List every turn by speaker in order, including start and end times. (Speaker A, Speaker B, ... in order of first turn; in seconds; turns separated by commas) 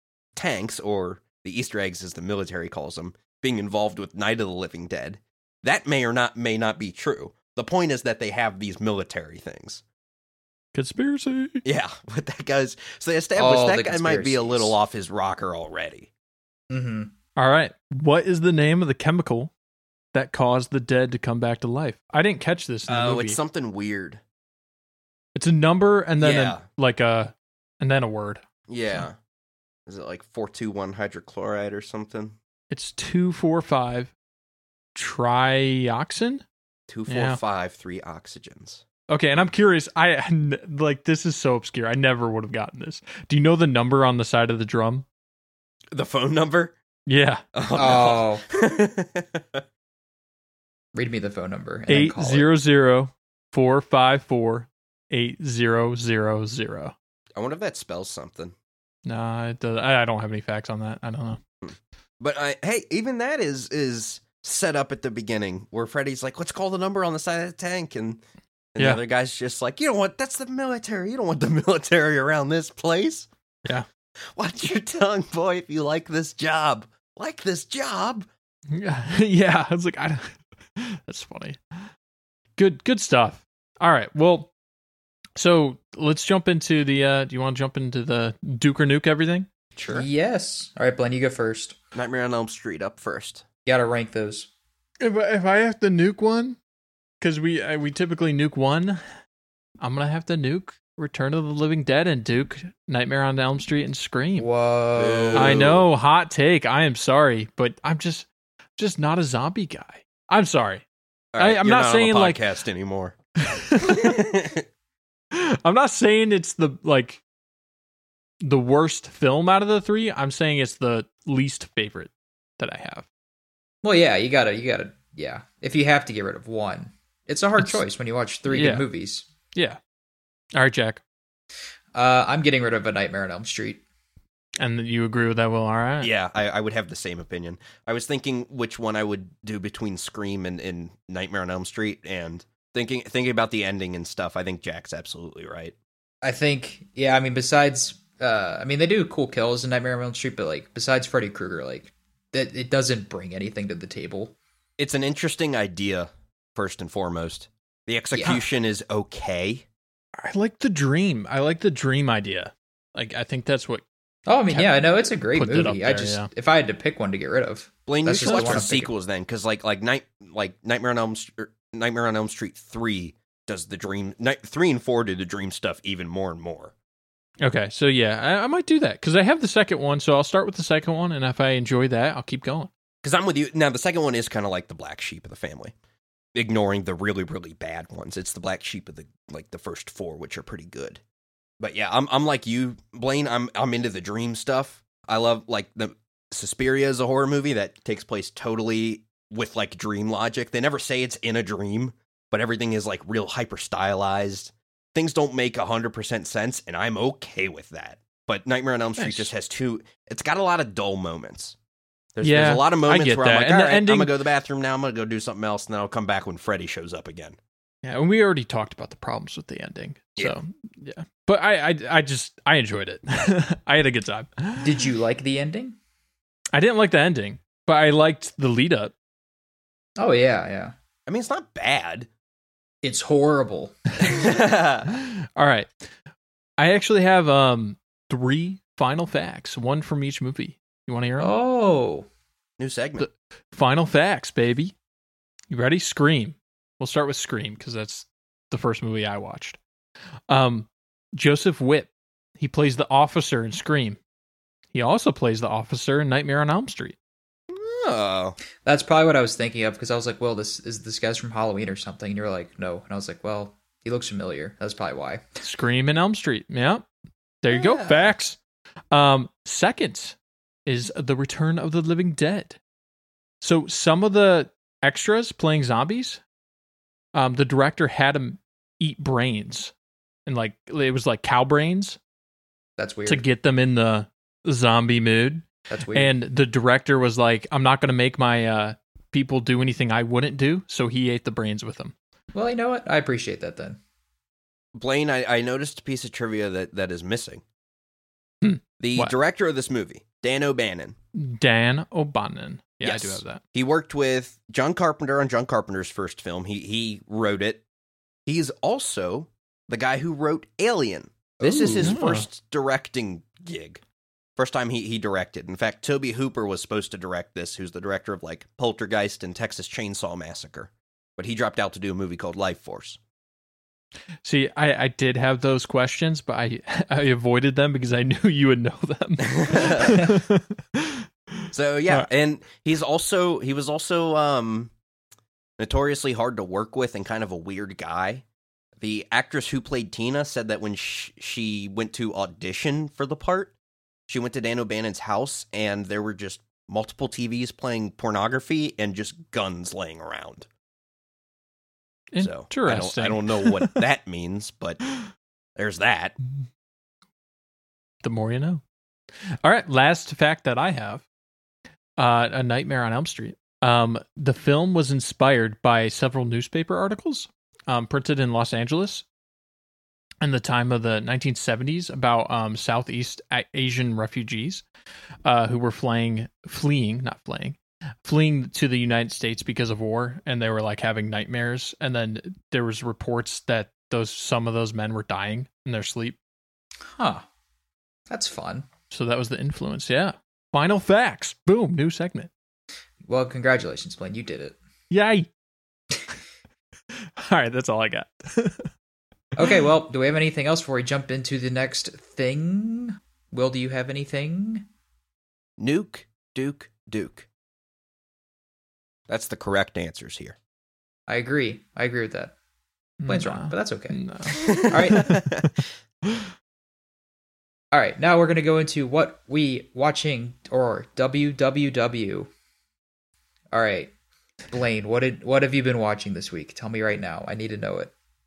Speaker A: 0.3-9.8, Speaker B: 10.7-11.6, Speaker A: 11.6-16.1, Speaker C: 13.4-14.8, Speaker C: 16.7-17.1, Speaker B: 17.4-19.5, Speaker B: 20.1-23.4, Speaker A: 22.9-24.2, Speaker B: 25.3-29.1, Speaker A: 26.2-26.6, Speaker A: 28.7-29.1, Speaker A: 29.9-32.4, Speaker B: 32.7-34.1, Speaker B: 34.9-36.4, Speaker A: 36.9-38.8, Speaker B: 37.1-37.4, Speaker B: 39.1-45.0, Speaker A: 45.9-46.8, Speaker B: 47.1-47.4, Speaker A: 47.5-49.6, Speaker C: 47.7-48.4, Speaker C: 50.9-52.5, Speaker B: 51.9-56.9, Speaker A: 57.4-58.5, Speaker B: 59.0-61.4, Speaker A: 61.6-68.2, Speaker A: 68.7-73.3, Speaker A: 74.3-78.3, Speaker B: 78.7-81.6, Speaker B: 82.6-84.5, Speaker B: 85.4-89.5, Speaker A: 89.8-90.1, Speaker C: 89.9-91.8, Speaker A: 91.9-93.4, Speaker C: 93.6-94.5, Speaker B: 95.0-96.6, Speaker B: 97.2-99.0, Speaker B: 99.8-104.5, Speaker C: 104.4-105.7, Speaker A: 105.0-105.9, Speaker B: 105.3-108.3, Speaker B: 108.8-110.8, Speaker A: 111.3-113.2, Speaker B: 111.4-112.4, Speaker B: 113.4-114.2, Speaker A: 113.8-114.6, Speaker B: 115.3-117.2, Speaker B: 118.4-123.0, Speaker C: 123.8-129.2, Speaker B: 128.5-128.9, Speaker B: 129.5-129.8, Speaker B: 130.6-131.0, Speaker C: 131.9-133.8, Speaker B: 134.6-136.1, Speaker A: 136.0-145.7, Speaker C: 146.2-154.3, Speaker A: 154.8-159.6, Speaker C: 158.1-158.4, Speaker B: 160.2-163.8, Speaker C: 164.3-168.9, Speaker B: 164.5-166.3, Speaker A: 167.9-176.7, Speaker B: 168.2-168.7, Speaker B: 177.4-182.7, Speaker A: 183.0-185.7, Speaker A: 186.3-191.0, Speaker A: 191.6-211.6, Speaker B: 209.0-209.3, Speaker A: 212.1-217.4, Speaker B: 212.2-214.1, Speaker B: 217.8-224.8, Speaker C: 224.6-225.8, Speaker B: 226.5-228.9, Speaker C: 230.0-230.7, Speaker A: 231.1-232.1, Speaker C: 232.8-233.8, Speaker A: 234.0-234.9, Speaker B: 234.9-235.7, Speaker B: 236.6-241.3, Speaker C: 241.2-242.1, Speaker A: 242.6-243.1, Speaker B: 243.0-244.7, Speaker B: 245.5-249.6, Speaker B: 250.3-254.0, Speaker B: 254.7-256.9, Speaker A: 257.5-258.4, Speaker C: 258.6-265.4, Speaker B: 265.4-266.9, Speaker B: 267.4-268.4, Speaker A: 267.5-268.1, Speaker B: 268.9-272.6, Speaker B: 273.4-276.2, Speaker B: 277.1-279.7, Speaker B: 280.2-282.0, Speaker C: 282.8-283.2, Speaker B: 283.1-291.9, Speaker C: 285.7-286.1, Speaker C: 292.3-293.8, Speaker A: 294.7-297.4, Speaker B: 298.4-299.1, Speaker A: 298.8-300.9, Speaker B: 301.1-303.4, Speaker A: 302.8-307.6, Speaker A: 308.2-313.8, Speaker C: 311.4-312.0, Speaker B: 311.8-312.3, Speaker A: 314.4-323.0, Speaker B: 324.2-331.1, Speaker A: 329.3-330.1, Speaker A: 331.5-334.7, Speaker A: 335.6-338.2, Speaker A: 338.8-343.5, Speaker A: 344.1-350.5, Speaker B: 352.1-353.8, Speaker A: 352.2-354.8, Speaker A: 355.6-356.1, Speaker B: 358.0-358.6, Speaker B: 359.3-361.1, Speaker B: 362.0-369.1, Speaker B: 370.2-374.6, Speaker B: 375.2-386.1, Speaker C: 386.9-387.2, Speaker C: 388.1-388.7, Speaker B: 388.9-392.3, Speaker C: 393.1-394.6, Speaker B: 394.9-395.3, Speaker B: 397.1-398.7, Speaker C: 399.4-404.6, Speaker A: 405.6-407.3, Speaker A: 409.1-410.4, Speaker C: 411.1-412.3, Speaker B: 413.0-415.4, Speaker C: 413.1-415.2, Speaker A: 414.4-415.5, Speaker C: 417.7-422.3, Speaker C: 423.5-423.9, Speaker C: 424.5-427.9